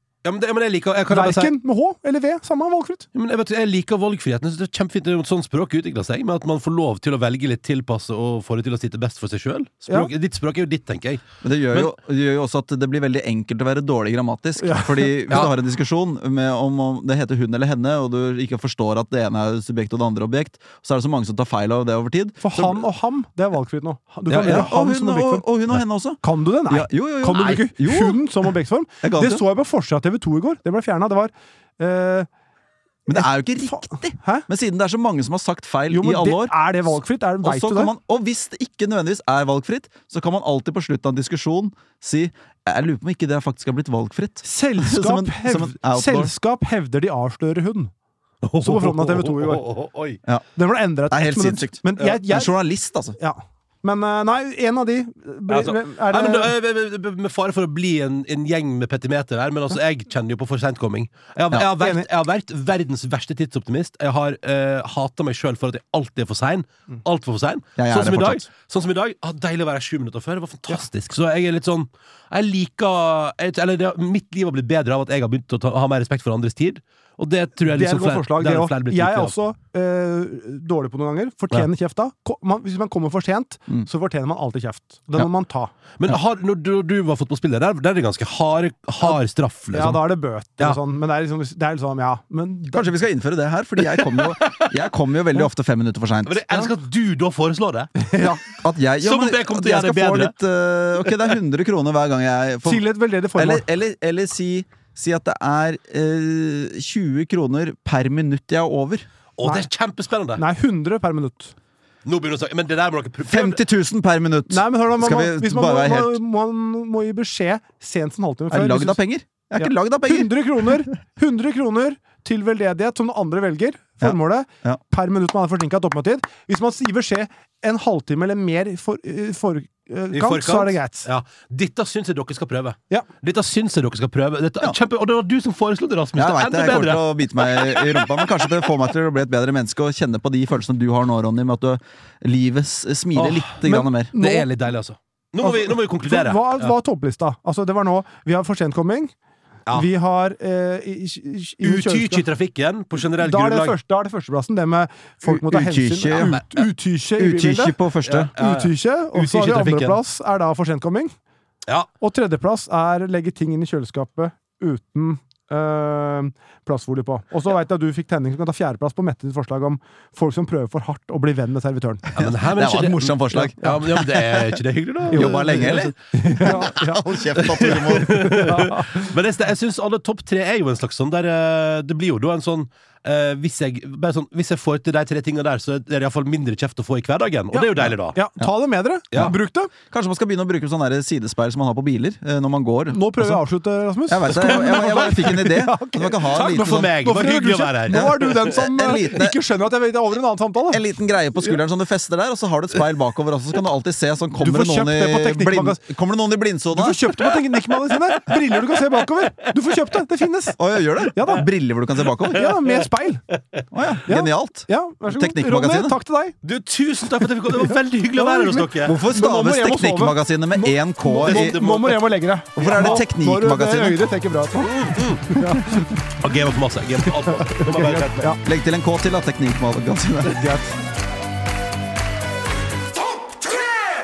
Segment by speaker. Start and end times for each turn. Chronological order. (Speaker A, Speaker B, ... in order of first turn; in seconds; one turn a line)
Speaker A: 0.2-1.5
Speaker B: 1.1-3.1
Speaker A: 3.1-11.9
Speaker C: 11.4-22.8
Speaker B: 14.6-15.2
Speaker B: 22.4-25.4
Speaker C: 24.3-28.2
Speaker A: 24.3-24.7
Speaker B: 26.2-32.3
Speaker C: 29.0-29.4
Speaker B: 33.1-34.5
Speaker C: 33.1-46.3
Speaker B: 35.9-37.9
Speaker B: 44.4-47.9
Speaker A: 48.4-50.2
Speaker B: 48.6-49.6
Speaker B: 50.6-52.5
Speaker C: 51.1-53.2
Speaker B: 53.2-56.5
Speaker A: 55.5-79.3
Speaker B: 61.8-62.1
Speaker C: 67.8-68.5
Speaker B: 77.7-85.7
Speaker A: 86.0-90.0
Speaker B: 89.7-92.9
Speaker C: 92.7-96.4
Speaker A: 96.2-98.0
Speaker B: 98.0-98.4
Speaker C: 98.4-102.8
Speaker A: 99.0-100.3
Speaker B: 102.6-103.6
Speaker C: 103.4-109.1
Speaker A: 109.4-110.4
Speaker B: 109.4-109.7
Speaker B: 110.4-111.5
Speaker A: 112.0-113.6
Speaker C: 113.3-116.2
Speaker B: 114.5-119.0
Speaker C: 118.5-120.3
Speaker B: 119.6-131.1
Speaker C: 124.0-124.8
Speaker A: 130.1-138.3
Speaker C: 136.2-144.1
Speaker A: 143.2-143.6
Speaker B: 143.7-144.5
Speaker A: 144.1-146.7
Speaker B: 145.4-149.1
Speaker B: 149.7-152.2
Speaker A: 151.6-153.8
Speaker B: 153.2-157.8
Speaker C: 155.2-156.4
Speaker A: 156.1-156.4
Speaker C: 157.2-158.3
Speaker A: 158.1-160.0
Speaker B: 158.3-161.1
Speaker B: 162.0-172.1
Speaker A: 172.2-176.7
Speaker C: 172.2-174.6
Speaker B: 175.1-177.0
Speaker C: 175.1-178.4
Speaker A: 177.3-188.2
Speaker B: 177.6-179.1
Speaker B: 187.5-189.7
Speaker C: 189.9-193.4
Speaker B: 192.9-200.8
Speaker C: 194.1-196.9
Speaker A: 194.4-195.4
Speaker A: 196.3-198.3
Speaker C: 197.9-199.4
Speaker C: 200.7-207.2
Speaker B: 204.4-205.8
Speaker B: 206.7-211.5
Speaker C: 210.6-212.6
Speaker B: 212.3-213.2
Speaker C: 213.7-216.0
Speaker B: 214.1-216.4
Speaker A: 216.4-218.9
Speaker B: 217.5-226.0
Speaker C: 218.8-221.6
Speaker A: 221.2-223.0
Speaker C: 222.6-224.1
Speaker A: 224.7-225.2
Speaker A: 226.1-228.3
Speaker B: 227.2-228.4
Speaker C: 228.4-230.5
Speaker B: 230.3-230.7